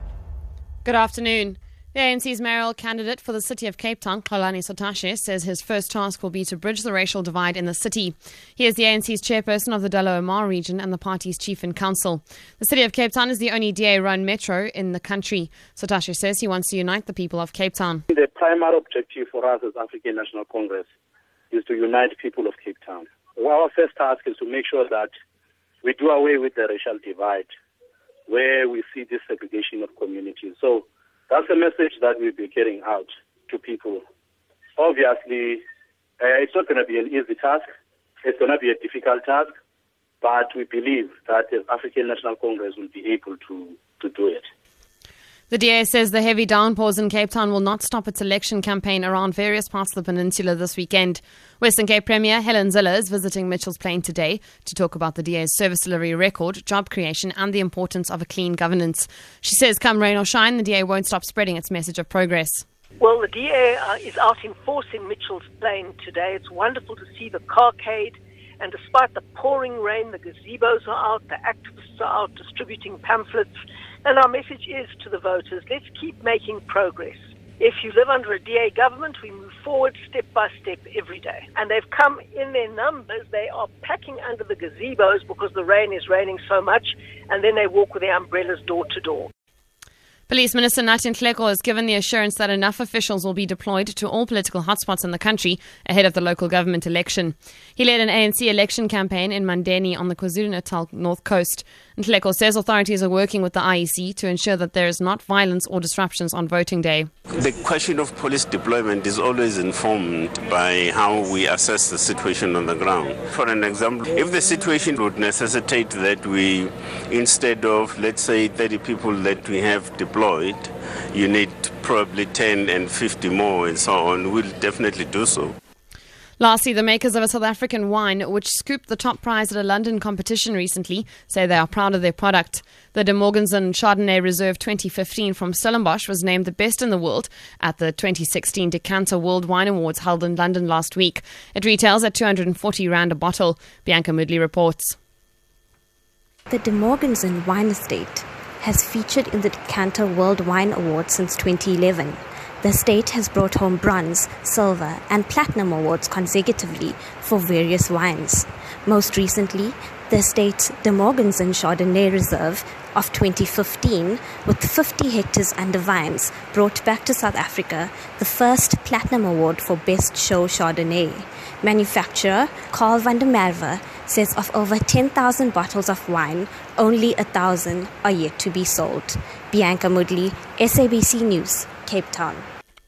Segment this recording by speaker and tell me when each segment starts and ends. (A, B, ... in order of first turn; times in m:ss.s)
0:00.8-0:18.0 A
0:18.1-0:20.9 B
0:21.5-0:25.1 B
0:25.8-0:27.5 B
0:28.3-0:34.0 B
0:34.8-0:35.6 B
0:36.2-0:37.6 B
0:38.2-0:39.5 B
0:40.2-0:44.4 B
0:45.5-1:02.7 A
1:03.0-1:13.5 C
1:14.0-1:29.3 C
1:30.3-1:47.1 A
1:47.4-2:05.6 D
2:06.4-2:25.0 A
2:26.5-3:02.5 E